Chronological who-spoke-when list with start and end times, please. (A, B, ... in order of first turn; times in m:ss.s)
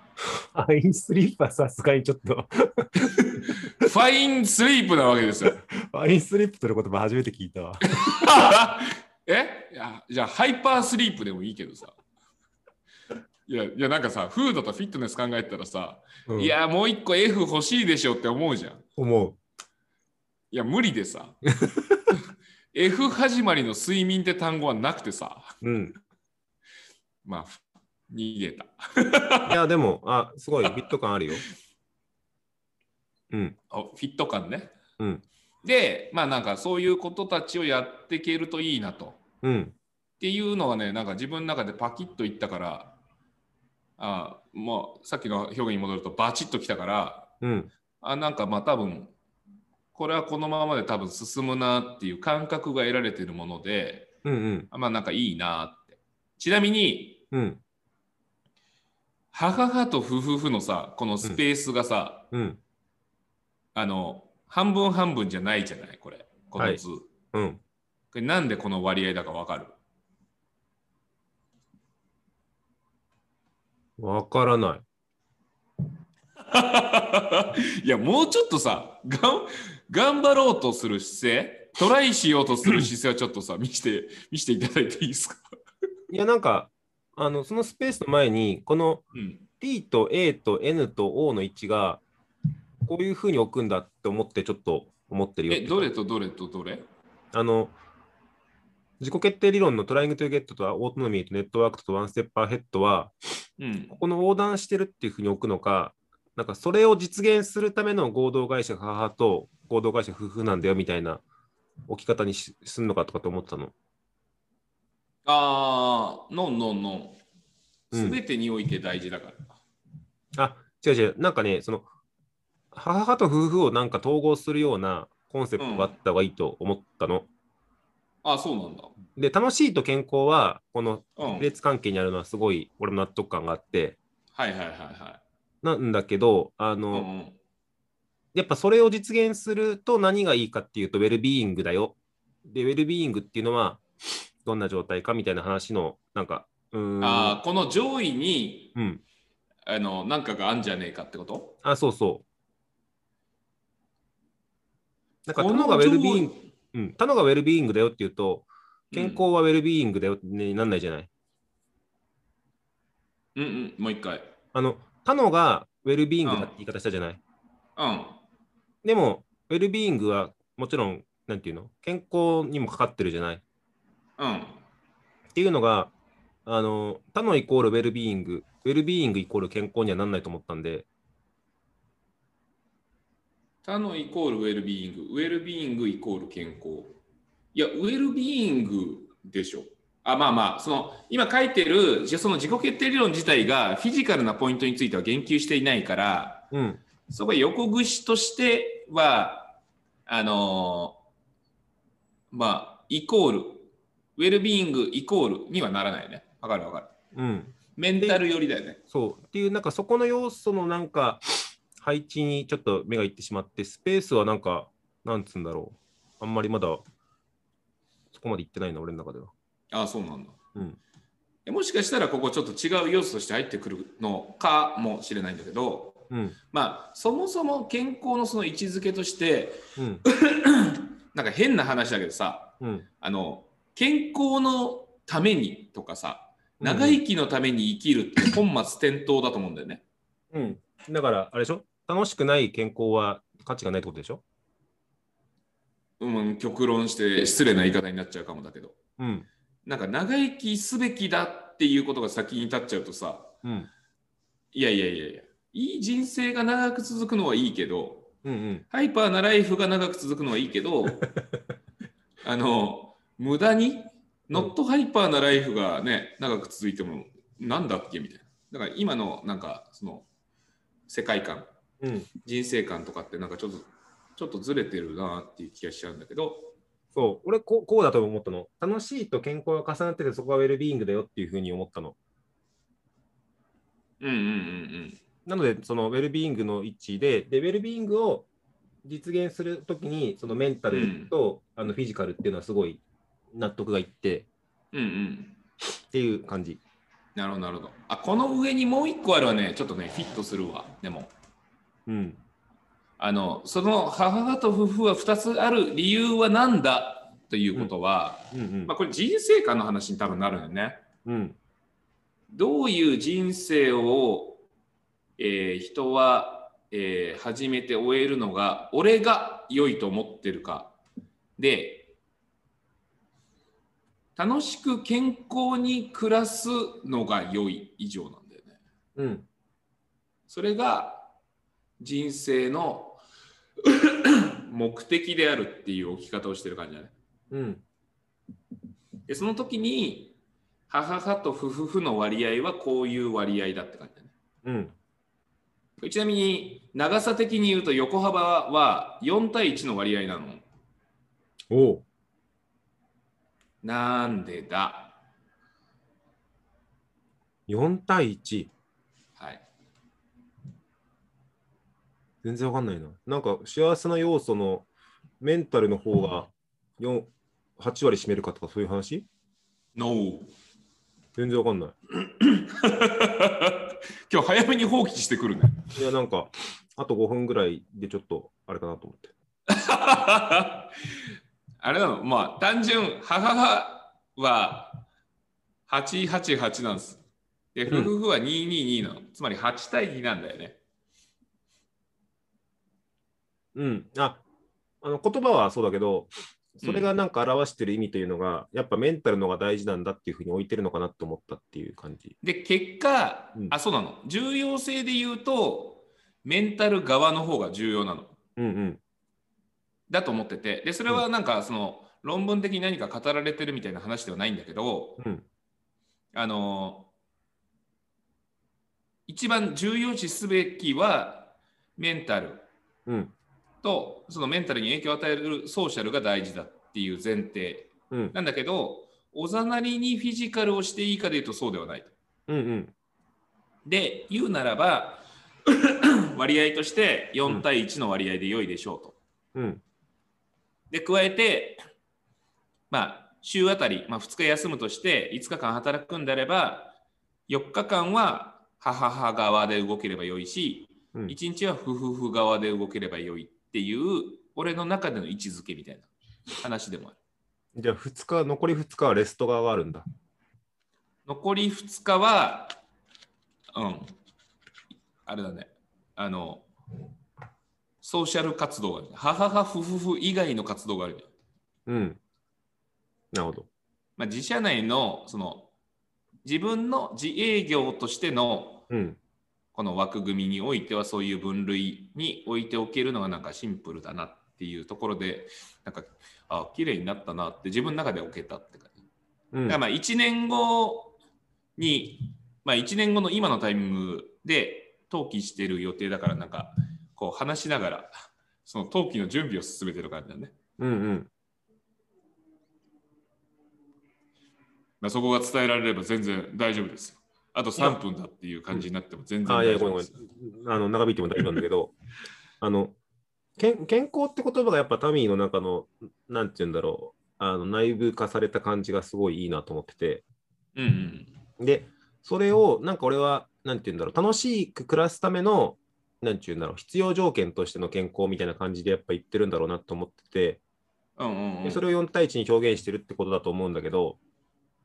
0:00.3-0:03.6 A
0:03.0-0:05.6 B
0:05.6-0:08.3 A
0:07.9-0:12.0 B
0:13.5-0:18.8 B
0:16.3-0:16.5 A
0:19.0-0:19.4 A
0:20.5-0:21.4 B
0:21.6-0:22.0 A
0:22.7-0:25.6 B
0:25.6-0:26.0 A
0:27.2-0:29.6 B
0:29.5-0:31.4 A
0:33.3-0:33.6 A
0:33.7-0:34.7 B
0:35.0-0:35.2 A
0:35.6-0:39.2 B
0:39.4-0:39.8 A
0:40.2-0:43.0 B
0:44.0-0:47.3 B
0:47.4-0:47.7 A
0:48.0-0:49.1 B
0:49.9-0:54.1 B
0:54.2-0:54.7 A
0:54.7-0:57.2 B
0:57.3-0:57.6 A
0:59.3-1:02.3 B
1:02.3-1:02.6 A
1:03.8-1:07.1 B
1:07.3-1:07.6 A
1:08.1-1:09.8 B
1:14.0-1:14.8 A
1:16.4-1:25.4 B
1:26.1-1:29.0 A
1:29.1-1:29.4 B
1:29.6-1:32.0 A
1:32.9-1:35.9 A
1:35.5-1:36.9 B
1:37.3-1:37.8 A
1:39.0-1:43.1 A
1:43.6-1:44.0 B
1:43.9-1:51.2 A
1:51.9-1:53.7 A
1:55.2-1:57.2 B
1:57.9-1:59.5 B
1:57.9-1:58.2 A
2:00.4-2:01.9 A
2:02.7-2:07.3 A
2:05.6-2:05.9 B
2:08.2-2:09.0 B
2:09.2-2:14.0 A
2:11.2-2:11.5 B
2:14.4-2:15.2 B
2:15.6-2:17.1 A
2:16.9-2:17.4 B
2:18.3-2:23.8 A
2:24.4-2:27.4 A
2:27.0-2:28.8 B
2:28.8-2:29.0 A
2:29.7-2:31.6 B
2:31.6-2:32.2 A
2:35.3-2:41.1 A
2:35.4-2:36.4 B
2:38.9-2:39.2 B
2:43.4-2:44.3 B
2:44.5-2:47.2 A
2:46.2-2:46.5 B
2:47.8-2:48.2 B
2:48.8-2:53.4 A
2:54.2-2:54.6 B
2:55.3-2:55.9 A
2:56.5-3:00.9 A
3:03.6-3:07.0 B
3:07.5-3:16.5 B
3:16.5-3:16.8 A
3:17.1-3:21.0 B
3:22.3-3:26.9 B
3:27.1-3:28.2 A
3:27.8-3:28.8 B
3:28.9-3:31.2 A
3:31.8-3:36.8 A
3:38.1-3:39.3 A
3:39.7-3:40.4 B
3:41.5-3:59.8 B
3:46.1-3:46.4 A
3:49.8-3:50.0 A
3:52.6-3:52.9 A
3:56.6-3:57.0 A
4:00.3-4:04.2 A
4:06.0-4:08.8 B
4:09.0-4:09.3 A
4:09.7-4:13.3 B
4:13.4-4:13.7 A
4:14.5-4:18.1 B
4:18.2-4:18.6 A
4:18.7-4:21.1 B
4:22.2-4:30.1 B
4:30.9-4:31.5 B
4:31.8-4:32.1 A
4:32.2-4:36.5 B
4:36.9-4:42.0 A
4:44.0-4:45.0 B
4:45.3-4:48.3 A
4:48.8-4:52.8 A
4:50.7-4:51.1 B
4:53.3-4:54.3 A
4:54.7-4:55.4 B
4:55.9-4:56.6 A
4:57.2-5:01.1 B
5:01.9-5:02.2 A
5:03.0-5:10.8 B
5:08.3-5:08.7 A
5:11.0-5:11.4 A
5:12.3-5:14.4 B
5:15.2-5:20.8 B
5:21.4-5:21.9 B
5:24.2-5:28.6 B
5:29.0-5:29.3 A
5:30.3-5:31.1 B
5:31.8-5:33.0 B
5:33.6-5:36.9 B
5:37.3-5:37.6 A
5:39.1-5:40.2 B
5:40.7-5:44.1 B
5:44.4-5:44.7 A
5:45.8-5:50.4 B
5:51.5-5:51.8 A
5:53.6-5:55.0 B
5:57.5-5:58.5 A
5:59.2-5:59.5 B
6:02.2-6:04.7 A
6:05.2-6:09.1 A
6:09.8-6:10.3 B
6:11.2-6:11.8 A
6:12.1-6:15.7 B
6:15.8-6:19.1 A
6:19.5-6:20.7 B
6:21.6-6:24.9 B
6:25.7-6:27.0 B
6:27.6-6:30.6 B
6:33.6-6:34.2 A
6:34.8-6:42.2 A
6:36.6-6:36.9 B
6:42.2-6:48.2 B
6:48.4-6:48.8 A
6:49.9-6:55.0 B
6:55.0-6:55.2 A
6:56.1-6:56.9 B
6:59.1-7:02.5 B
7:02.9-7:03.1 A
7:03.6-7:11.9 B
7:12.3-7:12.7 A
7:13.6-7:19.0 B
7:19.4-7:19.6 A
7:20.7-7:21.6 B
7:22.7-7:26.8 B
7:27.3-7:37.0 B
7:37.6-7:39.8 A
7:41.1-7:42.6 B
7:43.5-7:43.9 B
7:45.1-7:46.5 B
7:47.8-7:51.1 B
7:51.7-7:52.0 A
7:53.1-7:53.5 A
7:54.0-7:55.5 B
7:56.2-7:58.6 B
7:58.7-7:59.0 A
7:59.5-8:08.8 B
8:09.3-8:09.6 A
8:09.5-8:11.0 B
8:11.6-8:17.9 B
8:18.4-8:20.3 B
8:20.6-8:21.1 A
8:24.8-8:30.0 B
8:29.3-8:31.8 A
8:32.4-8:32.8 A
8:33.4-8:40.0 A
8:40.6-8:41.1 B
8:41.4-8:50.4 A
8:51.0-8:51.6 B
8:51.4-8:54.0 A